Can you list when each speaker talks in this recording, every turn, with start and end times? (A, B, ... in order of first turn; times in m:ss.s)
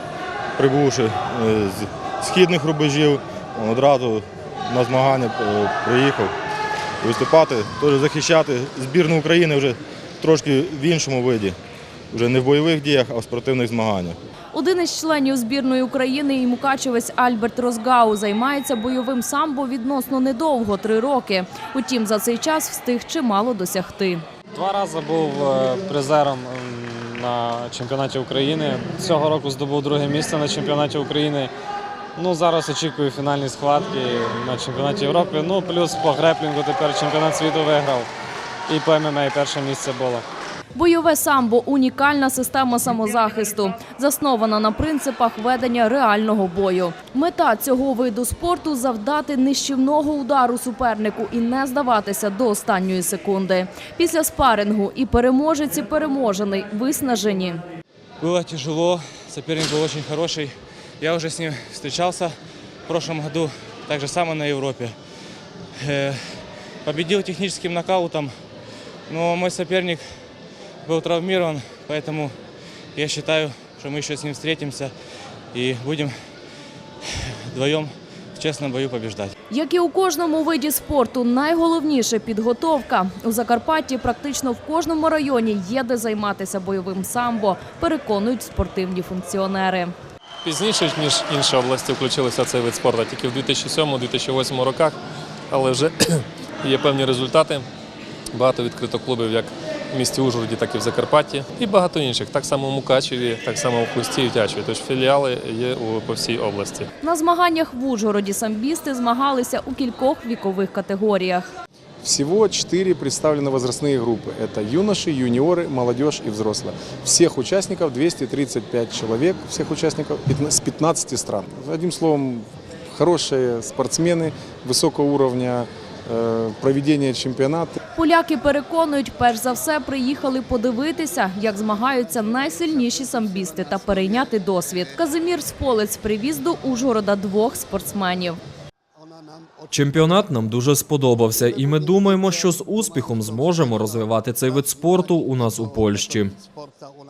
0:00.6-0:06.3 A
0:07.0-0:11.6 A
0:12.1-0:14.2 A
0:14.5-0:24.2 B
0:24.5-0:31.5 C
0:32.2-0:38.1 C
0:38.7-0:40.2 C
0:40.7-0:57.6 B
0:58.2-1:02.3 D
1:02.9-1:04.9 D
1:05.7-1:08.3 D
1:09.1-1:10.1 D
1:10.8-1:12.4 D
1:12.9-1:14.9 D
1:15.5-1:16.1 D
1:17.0-1:19.3 D
1:19.5-1:29.9 B
1:30.4-1:35.0 E
1:35.5-1:37.6 E
1:38.3-1:46.9 E
1:47.0-1:51.4 B
1:52.0-2:07.7 F
2:07.9-2:18.4 B
2:19.7-2:26.4 G